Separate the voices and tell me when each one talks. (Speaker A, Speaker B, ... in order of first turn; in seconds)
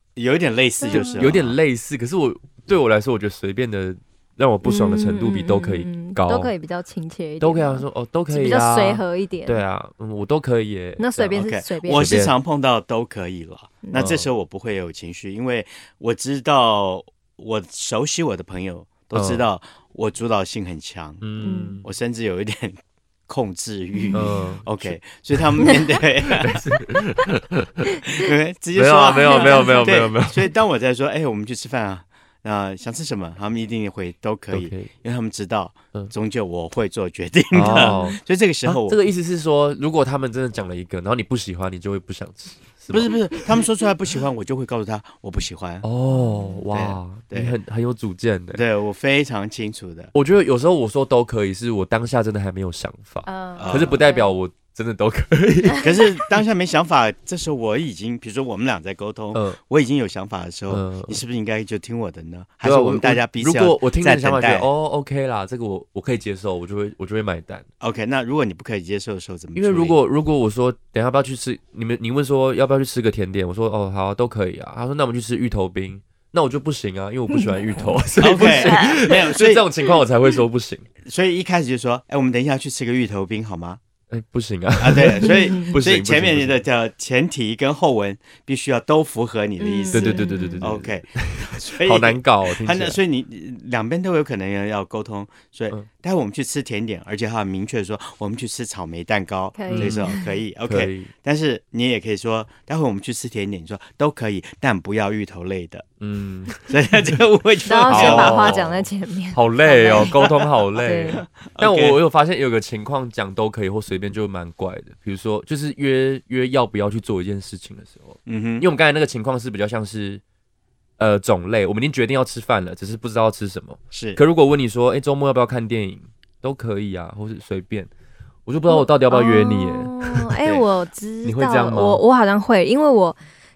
Speaker A: 0.2-1.6, 11.4-21.3, 21.8-26.6, 28.1-39.0, 42.9-45.9, 46.7-47.6, 48.5-50.1, 53.6-54.0, 55.8-64.7, 67.8-70.0, 78.2-79.7, 81.0-83.8, 84.8-105.9, 106.7-108.8, 111.2-112.0, 118.3-118.7, 123.9-124.2
Speaker B: 0.8-1.3, 4.6-9.6, 11.0-12.1, 21.4-21.8, 29.1-29.9, 37.7-38.1, 46.1-46.6, 53.2-54.3, 78.4-79.2, 85.2-85.8, 89.6-90.6, 99.6-100.3, 107.7-111.2, 128.7-133.2
Speaker C: 0.9-6.5, 7.4-12.4, 13.9-14.3, 19.1-19.5, 21.2-21.9, 24.1-27.9, 28.8-30.5, 34.5-34.9, 37.5-43.6, 45.8-48.6, 50.1-56.2, 59.3-59.6, 60.7-61.2, 62.6-67.7, 69.6-80.9, 84.1-86.6, 89.9-93.0, 99.7-100.1, 100.7-101.1, 106.0-106.7, 107.9-108.7, 109.3-120.2, 121.0-127.9, 128.5-129.9, 131.2-132.0